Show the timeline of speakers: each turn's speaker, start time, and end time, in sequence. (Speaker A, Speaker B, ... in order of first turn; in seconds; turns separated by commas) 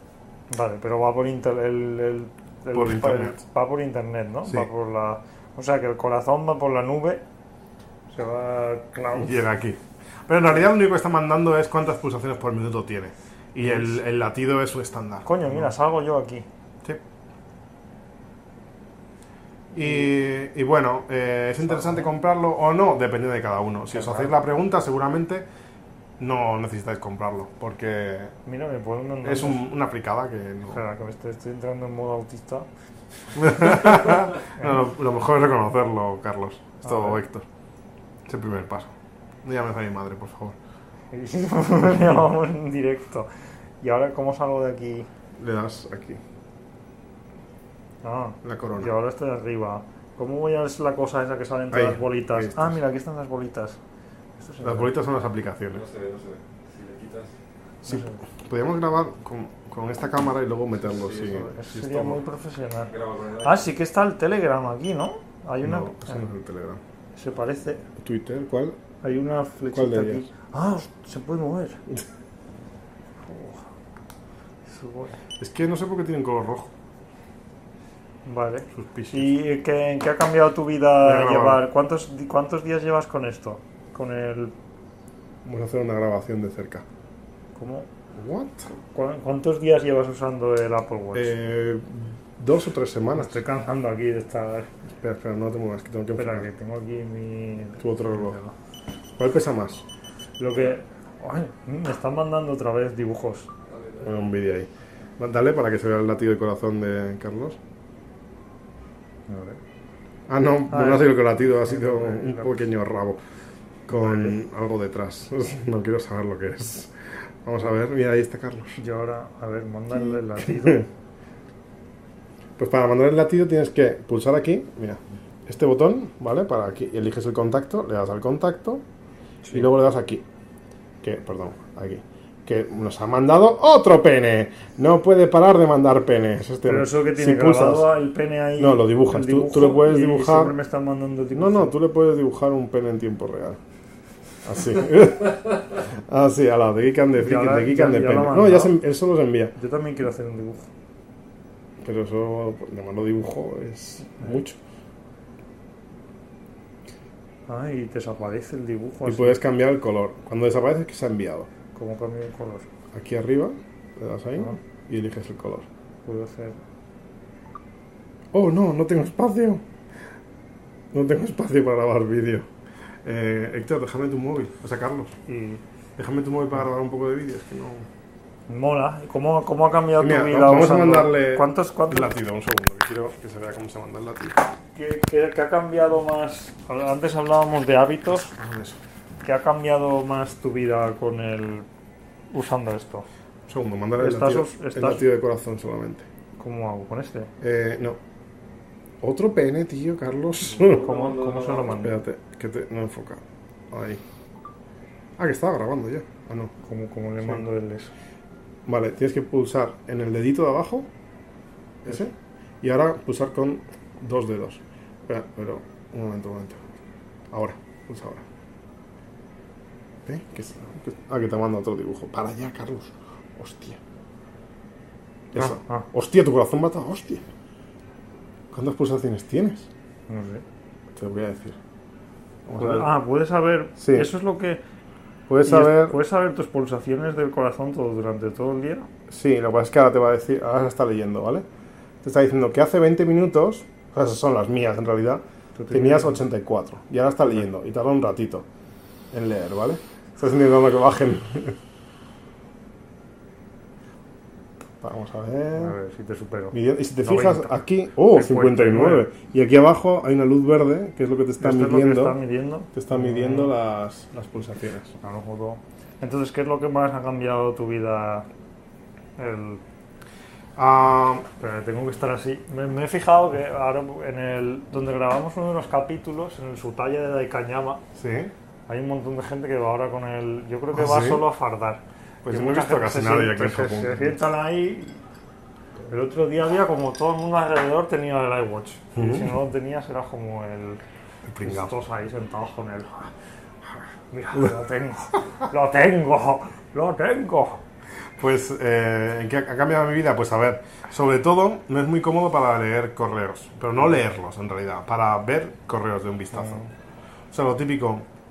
Speaker A: 0.5-7.2, Speaker B: 2.7-3.4, Speaker A: 8.1-9.4, Speaker B: 9.1-15.7, Speaker A: 13.6-14.0, Speaker A: 15.2-16.4, Speaker B: 19.7-25.4, Speaker A: 21.6-22.1, Speaker A: 23.9-24.3, Speaker B: 26.2-28.3, Speaker A: 28.4-29.6, Speaker B: 29.2-30.8, Speaker A: 30.7-32.7, Speaker B: 33.4-37.5, Speaker A: 33.4-34.0, Speaker A: 36.8-37.2, Speaker B: 38.2-38.9, Speaker B: 39.4-40.6, Speaker A: 41.1-43.3, Speaker A: 43.8-45.1, Speaker B: 45.4-46.2, Speaker A: 48.0-53.8, Speaker B: 48.4-48.9, Speaker B: 51.7-52.8, Speaker A: 54.4-54.9, Speaker B: 54.6-55.8, Speaker C: 55.7-57.3, Speaker B: 57.8-62.2, Speaker A: 57.8-58.2, Speaker C: 60.9-61.4, Speaker A: 61.3-66.2, Speaker C: 62.9-63.7, Speaker B: 65.6-66.8, Speaker A: 67.1-67.8, Speaker B: 68.0-68.8, Speaker A: 69.0-71.8, Speaker B: 69.7-70.2, Speaker A: 73.2-73.6, Speaker A: 74.7-75.2, Speaker B: 75.4-76.7, Speaker A: 78.2-84.5, Speaker B: 78.7-79.4, Speaker B: 81.0-81.6, Speaker B: 85.4-86.8, Speaker A: 87.5-87.9, Speaker B: 88.1-88.7, Speaker A: 88.7-91.3, Speaker B: 91.1-93.4, Speaker A: 93.1-94.7, Speaker B: 95.0-96.5, Speaker A: 96.2-98.5, Speaker B: 97.8-98.4, Speaker B: 99.2-99.8, Speaker A: 100.4-103.5, Speaker C: 103.7-104.1, Speaker B: 104.0-107.6, Speaker A: 109.3-109.6, Speaker B: 110.3-113.2, Speaker A: 110.7-112.6, Speaker B: 113.9-118.8, Speaker A: 113.9-114.3, Speaker A: 118.8-120.9, Speaker B: 120.4-120.8, Speaker B: 122.6-128.8, Speaker B: 129.5-130.2, Speaker B: 131.0-137.9, Speaker A: 136.6-141.7, Speaker B: 138.6-140.5, Speaker B: 141.3-143.6, Speaker B: 144.4-149.5, Speaker A: 147.2-148.8, Speaker A: 149.6-150.7, Speaker B: 151.8-154.6, Speaker A: 157.5-159.4, Speaker B: 159.0-161.5, Speaker A: 161.7-162.7, Speaker B: 162.9-165.7, Speaker A: 166.0-166.6, Speaker B: 168.3-169.6, Speaker B: 170.9-172.5, Speaker B: 173.0-175.1, Speaker A: 175.3-175.6, Speaker B: 176.0-177.9, Speaker A: 178.5-182.1, Speaker B: 180.0-184.4, Speaker A: 184.8-188.3, Speaker B: 188.3-188.8, Speaker A: 189.2-191.7, Speaker A: 192.3-193.1, Speaker B: 193.5-196.1, Speaker A: 194.0-195.0, Speaker A: 196.4-197.3, Speaker B: 197.4-198.0, Speaker B: 199.0-200.9, Speaker C: 200.5-201.7, Speaker A: 200.7-202.0, Speaker B: 201.7-204.0, Speaker B: 205.2-206.5, Speaker A: 206.6-207.9, Speaker B: 208.7-210.9, Speaker B: 211.8-216.6, Speaker B: 217.3-218.2, Speaker B: 220.0-223.8, Speaker B: 225.3-227.2, Speaker A: 225.4-225.9, Speaker B: 228.5-229.7, Speaker A: 230.1-230.4, Speaker B: 230.9-231.6, Speaker B: 232.4-232.9, Speaker A: 232.6-234.6, Speaker B: 233.8-234.1, Speaker B: 235.3-236.0, Speaker A: 235.4-238.9, Speaker B: 239.1-241.4, Speaker B: 242.0-248.4, Speaker A: 245.6-246.2, Speaker B: 249.1-251.6, Speaker B: 254.8-255.7, Speaker A: 255.6-259.1, Speaker B: 256.5-262.2, Speaker A: 261.4-263.5, Speaker B: 262.7-264.9, Speaker A: 265.0-268.3, Speaker A: 269.2-269.6, Speaker B: 270.6-271.2, Speaker A: 271.4-277.8, Speaker B: 277.9-278.3, Speaker A: 278.7-285.0, Speaker B: 280.7-281.2, Speaker B: 282.2-284.2, Speaker A: 285.9-290.8, Speaker B: 288.9-289.3, Speaker B: 291.2-291.7, Speaker A: 291.4-293.1, Speaker A: 294.1-297.6, Speaker B: 298.2-306.6, Speaker B: 307.3-308.0